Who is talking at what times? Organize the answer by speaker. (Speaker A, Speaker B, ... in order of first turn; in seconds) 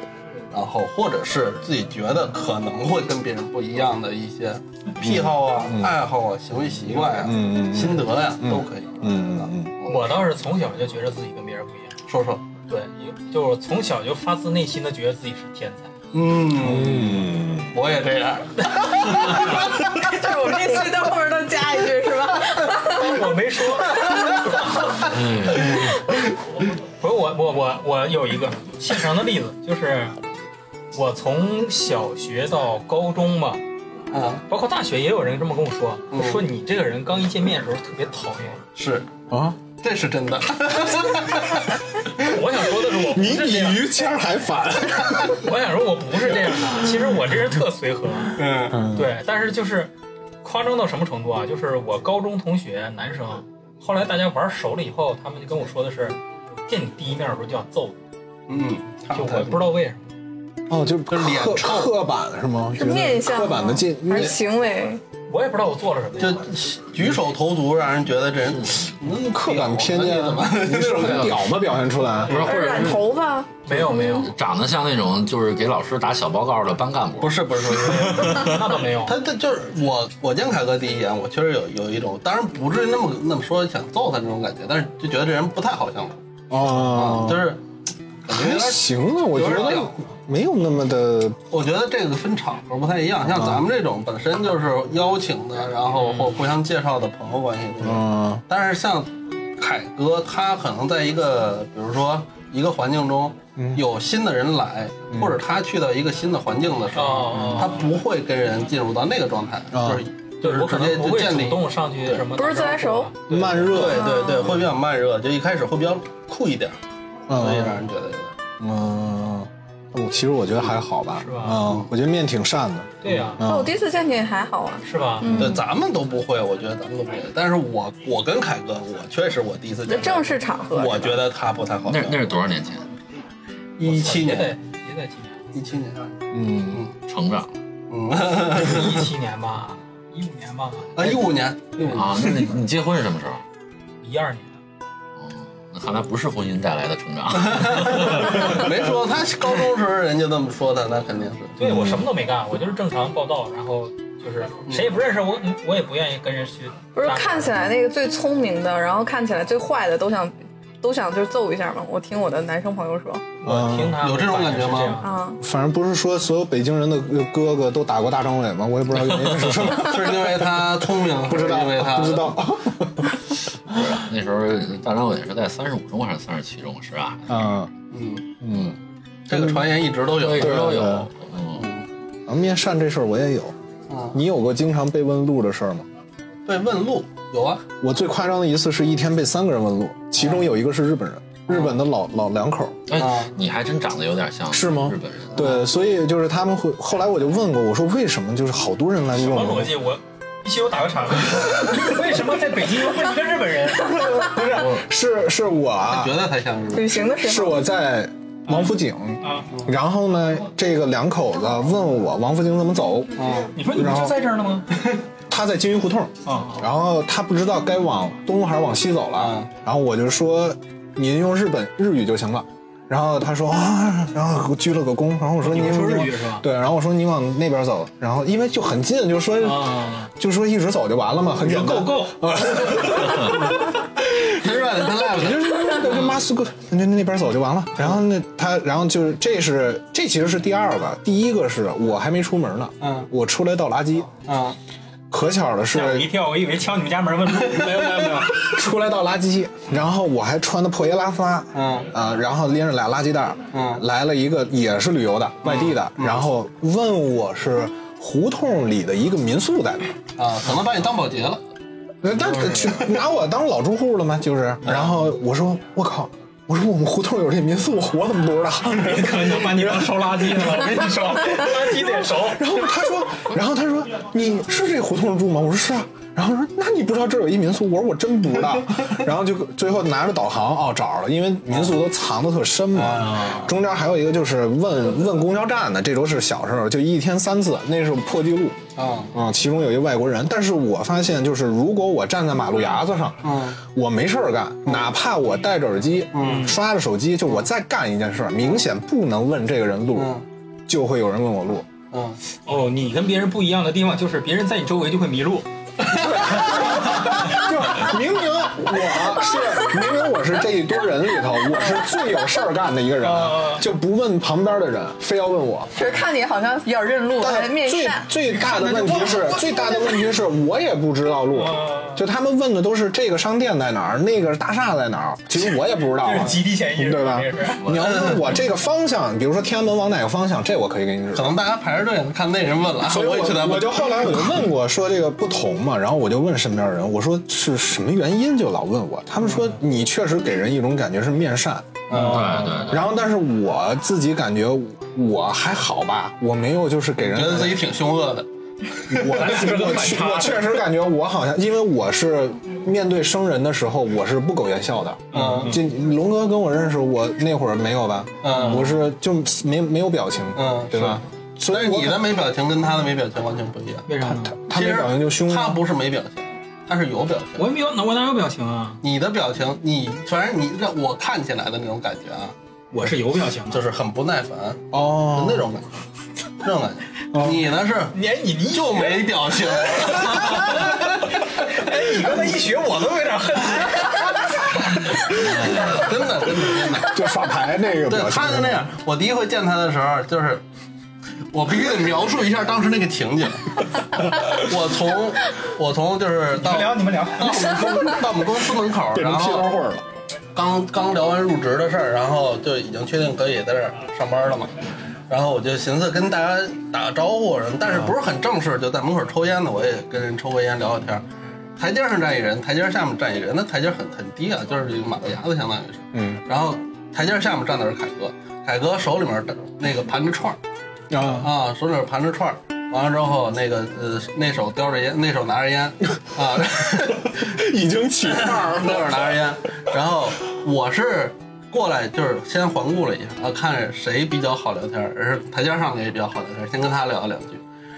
Speaker A: 0.5-10.2, 12.1-12.5, 16.1-19.7, 34.1-34.4, 36.1-36.4, 38.8-39.1, 39.7-41.6, 48.4-48.8, 58.5-59.7, 61.1-61.9, 66.2-71.4, 77.2-87.6, 88.2-88.9, 91.5-112.3, 113.4-116.8, 117.3-118.3, 121.6-121.9, 125.2-132.2, 133.8-134.6, 135.5-136.0, 136.7-136.9, 137.9-139.1, 140.9-142.4, 147.4-151.6, 164.0-165.0, 169.6-172.4, 177.9-178.3, 179.3-181.0, 181.5-181.8, 183.9-184.2, 186.4-187.6, 190.2-190.5, 191.5-191.8, 192.9-193.3, 205.9-207.0, 213.2-213.6, 219.2-219.5, 233.3-235.9, 242.8-243.1, 244.2-244.6, 251.5-251.9, 253.5-253.8, 255.4-256.2, 260.2-261.4, 262.1-262.9, 264.6-264.9, 282.8-283.5, 288.8-289.1, 293.2-293.6, 296.1-296.5, 299.9-300.2, 301.9-302.2, 327.8-328.2, 331.1-334.4, 341.9-342.4, 347.0-349.3, 355.1-355.6, 358.2-358.7, 360.4-363.9, 364.5-367.5, 368.8-372.4, 373.5-375.7, 376.4-378.0, 378.5-381.0, 385.3-387.1, 387.8-390.4, 391.3-399.5, 400.3-404.6, 405.1-411.0, 411.6-420.4, 421.1-427.2, 428.1-437.4
Speaker B: 5.0-6.0, 7.2-9.7, 16.5-17.7, 39.3-39.6, 43.0-45.5, 48.7-49.1, 60.7-64.3, 69.1-72.4, 86.5-87.5, 88.3-91.4, 93.2-93.6, 97.8-98.4, 103.6-103.8, 105.1-105.4, 107.3-107.7, 109.7-110.0, 113.3-114.1, 117.3-117.8, 118.6-123.7, 125.3-125.6, 136.3-136.8, 151.6-152.0, 163.4-164.0, 165.4-173.2, 177.3-177.7, 178.4-178.8, 179.3-179.7, 180.4-181.1, 182.3-183.5, 184.1-185.9, 187.8-192.8, 194.5-199.7, 201.3-201.9, 203.8-206.2, 207.2-213.2, 213.7-214.2, 215.3-233.6, 234.2-244.2, 245.1-246.1, 247.3-259.9, 262.0-288.6, 289.1-301.6, 305.9-315.7, 317.2-331.4, 332.8-341.8, 342.7-347.6, 348.9-362.0, 364.0-365.6, 374.7-375.5, 377.1-377.5, 385.2-385.8, 386.8-388.6, 397.8-398.2, 398.9-399.9, 415.9-416.2, 420.9-421.3, 427.0-429.3
Speaker C: 9.8-12.0, 12.7-15.9, 18.7-19.7, 20.4-20.8, 22.8-25.0, 27.0-30.2, 30.9-33.6, 34.5-38.6, 42.2-43.9, 45.3-49.9, 50.4-58.0, 59.1-60.1, 65.3-66.4, 73.7-74.0, 78.2-79.2, 89.4-89.9, 106.9-107.9, 110.4-113.7, 121.2-121.6, 123.0-123.4, 124.8-125.4, 133.8-135.5, 138.5-141.2, 144.0-144.6, 151.6-157.5, 163.4-165.2, 199.2-204.3, 208.5-209.5, 213.5-214.7, 216.2-216.6, 225.4-226.4, 229.4-230.1, 231.4-232.3, 245.7-248.5, 268.8-272.7, 296.2-296.6, 302.4-307.5, 313.0-313.6, 318.3-319.5, 321.4-322.0, 326.0-327.7, 341.9-342.6, 349.0-350.6, 355.1-355.5, 363.9-364.4, 367.4-368.8, 372.7-373.6, 377.9-379.1, 379.8-385.4, 396.4-397.9
Speaker D: 19.9-23.3, 62.8-65.0, 72.4-74.3, 112.3-113.1, 113.8-114.6, 123.4-125.6, 129.9-131.2, 156.9-163.2, 165.0-165.4, 206.7-207.6, 315.8-318.1, 319.6-319.9
Speaker E: 25.0-25.9, 70.8-71.7, 72.2-73.0, 73.7-78.4, 131.9-132.9, 137.1-137.6, 141.8-143.4, 145.2-148.7, 169.0-169.6, 173.7-177.4, 180.1-181.7, 192.9-195.6, 327.6-328.4, 342.0-342.9